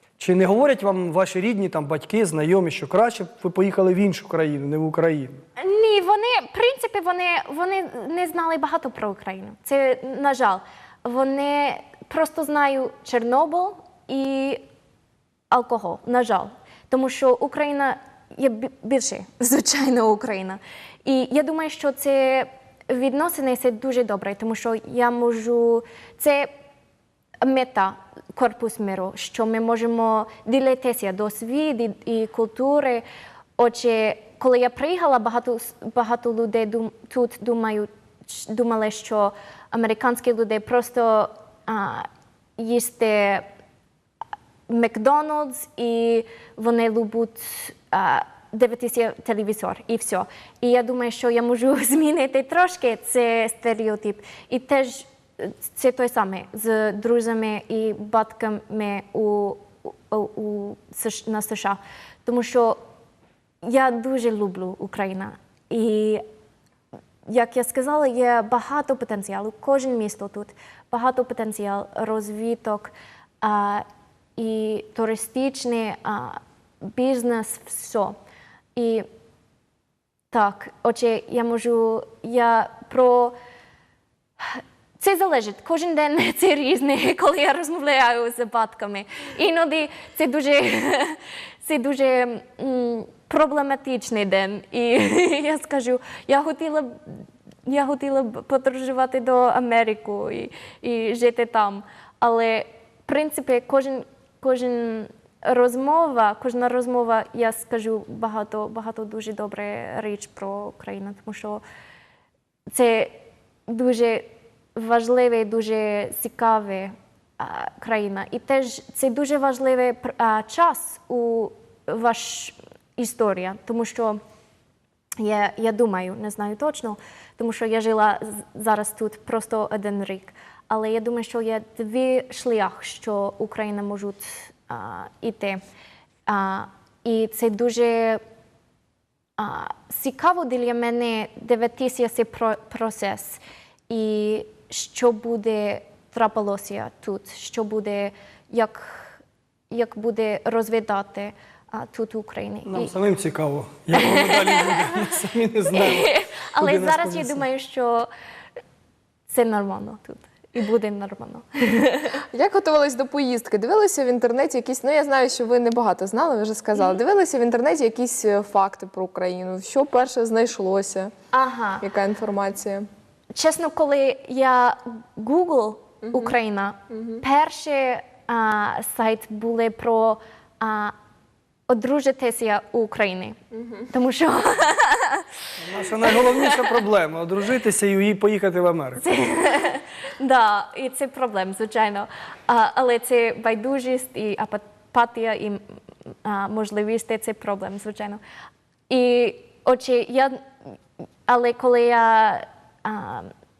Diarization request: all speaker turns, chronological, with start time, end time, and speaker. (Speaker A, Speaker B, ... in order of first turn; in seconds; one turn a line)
Speaker A: 0.2-5.4
Speaker B: 5.6-14.6
Speaker B: 15.5-26.5
Speaker B: 27.4-33.0
Speaker B: 33.6-43.5
Speaker B: 44.7-62.8
Speaker B: 63.6-66.2
Speaker B: 67.2-73.8
Speaker B: 74.4-78.2
Speaker B: 78.7-79.0
Speaker B: 80.3-83.3
Speaker B: 84.4-111.6
Speaker B: 112.7-124.2
Speaker B: 125.2-135.6
Speaker B: 136.3-138.2
Speaker B: 139.4-149.2
Speaker B: 149.7-152.9
Speaker A: 152.7-157.4
Speaker B: 153.9-155.1
Speaker B: 155.7-158.1
Speaker B: 159.3-162.2
Speaker C: 162.3-171.1
Speaker B: 171.3-171.8
Speaker C: 171.8-172.8
Speaker B: 173.3-180.9
Speaker C: 176.9-177.2
Speaker B: 181.7-183.4
Speaker B: 183.9-185.3
Speaker A: 185.6-189.0
Speaker B: 186.0-186.8
Speaker B: 189.0-195.6
Speaker B: 196.2-198.2
Speaker B: 198.9-200.4
Speaker B: 201.3-203.3